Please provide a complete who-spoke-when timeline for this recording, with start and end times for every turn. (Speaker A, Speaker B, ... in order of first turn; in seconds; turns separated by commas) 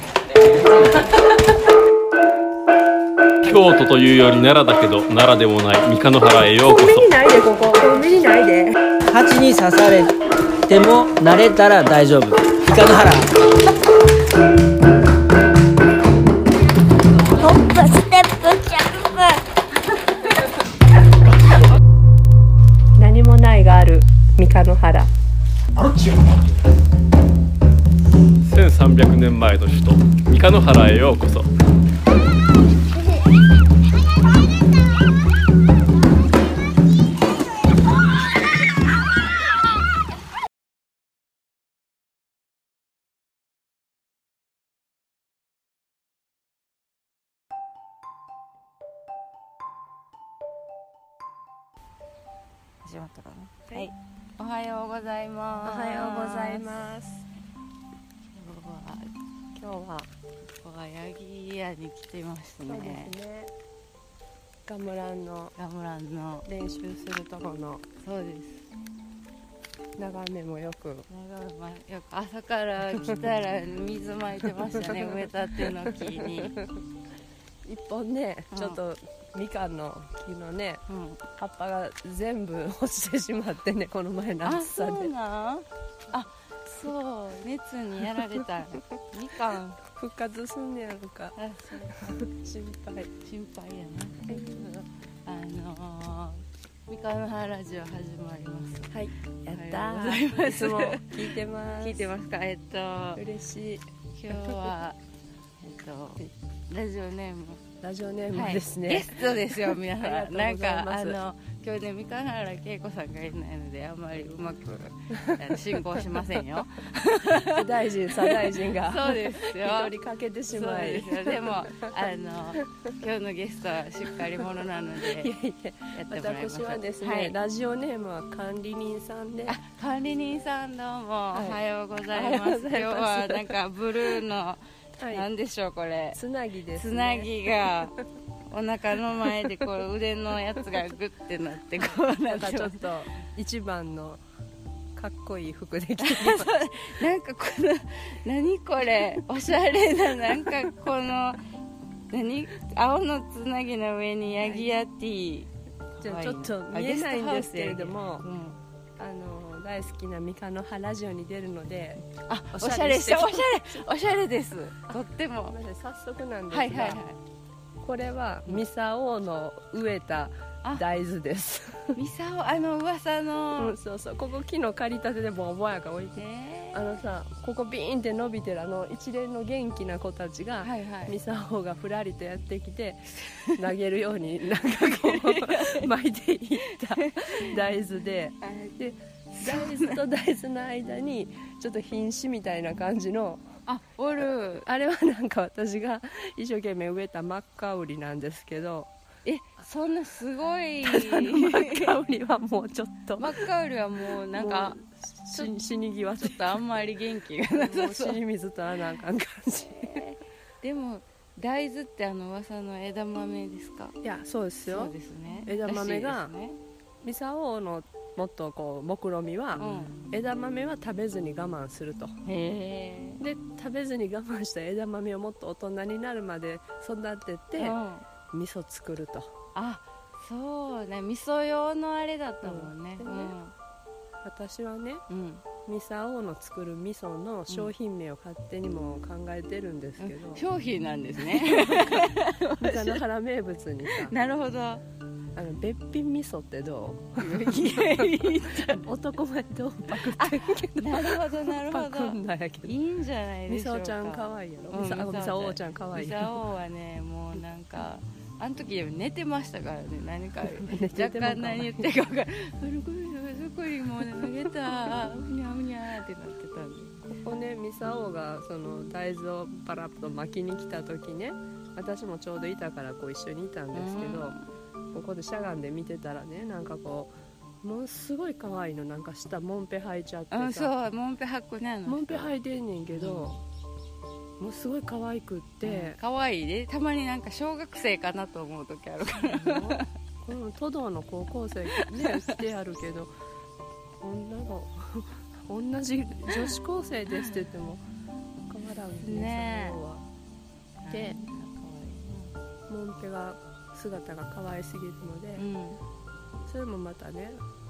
Speaker A: 3.4-7.1, Speaker B: 6.6-8.8, Speaker C: 9.1-10.1, Speaker C: 10.7-13.3, Speaker D: 17.3-19.4, Speaker B: 23.0-25.1, Speaker A: 28.4-31.5, Speaker E: 52.8-56.7, Speaker B: 55.6-57.3, Speaker E: 58.3-59.1, Speaker B: 59.5-60.1, Speaker E: 60.6-63.1, Speaker B: 62.6-63.5, Speaker B: 64.7-65.5, Speaker E: 65.5-66.5, Speaker B: 66.5-67.8, Speaker E: 68.0-68.7, Speaker B: 70.0-71.1, Speaker E: 71.1-76.6, Speaker B: 74.7-75.3, Speaker B: 75.8-76.7, Speaker B: 77.6-80.8, Speaker E: 78.5-78.8, Speaker E: 80.9-81.2, Speaker B: 81.4-85.1, Speaker E: 84.4-89.8, Speaker B: 89.9-91.3, Speaker E: 91.3-92.2, Speaker B: 91.9-93.1, Speaker E: 93.2-99.0, Speaker B: 94.3-94.7, Speaker B: 98.9-102.1, Speaker E: 99.5-103.2, Speaker B: 103.1-104.6, Speaker E: 104.1-105.0, Speaker E: 105.6-107.6, Speaker B: 107.8-111.2, Speaker E: 108.3-119.9, Speaker B: 115.2-116.2, Speaker B: 117.5-122.1, Speaker E: 120.5-125.3, Speaker B: 124.2-124.4, Speaker B: 125.0-129.6, Speaker E: 125.9-127.3, Speaker E: 129.5-136.2, Speaker B: 131.3-134.2, Speaker B: 135.0-135.3, Speaker B: 136.1-137.9, Speaker E: 136.7-138.0, Speaker E: 138.5-142.8, Speaker B: 142.3-144.2, Speaker B: 144.9-146.6, Speaker E: 146.0-151.4, Speaker E: 152.1-158.6, Speaker B: 154.4-154.7, Speaker B: 156.0-158.2, Speaker B: 159.0-163.9, Speaker E: 162.2-165.6, Speaker B: 164.9-167.0, Speaker E: 166.5-167.2, Speaker B: 167.8-172.0, Speaker E: 171.9-173.8, Speaker B: 173.6-193.5, Speaker E: 176.2-176.9, Speaker E: 180.6-181.2, Speaker E: 183.2-183.6, Speaker E: 184.8-185.9, Speaker E: 186.7-187.6, Speaker E: 188.4-188.7, Speaker E: 189.4-190.0, Speaker E: 193.7-194.7, Speaker B: 194.5-198.9, Speaker E: 199.2-201.9, Speaker B: 200.8-203.4, Speaker E: 203.2-204.8, Speaker B: 204.3-206.6, Speaker E: 206.2-208.2, Speaker B: 207.5-210.0, Speaker E: 209.7-214.0, Speaker B: 214.0-216.3, Speaker E: 214.6-216.6, Speaker B: 217.0-222.2, Speaker E: 219.6-220.0, Speaker E: 222.2-223.2, Speaker B: 223.2-227.8, Speaker E: 227.6-228.1, Speaker B: 228.3-229.3, Speaker E: 229.5-233.5, Speaker B: 232.4-233.3, Speaker B: 234.2-235.0, Speaker E: 235.1-235.4, Speaker B: 235.6-240.4, Speaker E: 240.0-243.0, Speaker B: 241.2-244.1, Speaker E: 243.9-244.8, Speaker B: 245.3-252.7, Speaker E: 247.2-248.8, Speaker E: 249.9-267.1, Speaker B: 253.5-256.4, Speaker B: 260.6-261.9, Speaker B: 264.2-264.5, Speaker B: 267.1-274.4, Speaker E: 273.7-274.5, Speaker B: 274.9-280.7, Speaker E: 280.3-282.3, Speaker B: 281.9-283.4, Speaker E: 282.9-283.4, Speaker B: 284.4-286.0, Speaker E: 285.6-289.9, Speaker B: 289.1-293.1, Speaker E: 291.7-292.2, Speaker B: 294.0-297.8, Speaker B: 298.5-300.0, Speaker E: 299.0-299.8, Speaker E: 300.8-302.3, Speaker B: 300.9-301.2, Speaker B: 302.7-305.4, Speaker E: 305.4-305.8, Speaker B: 306.5-307.4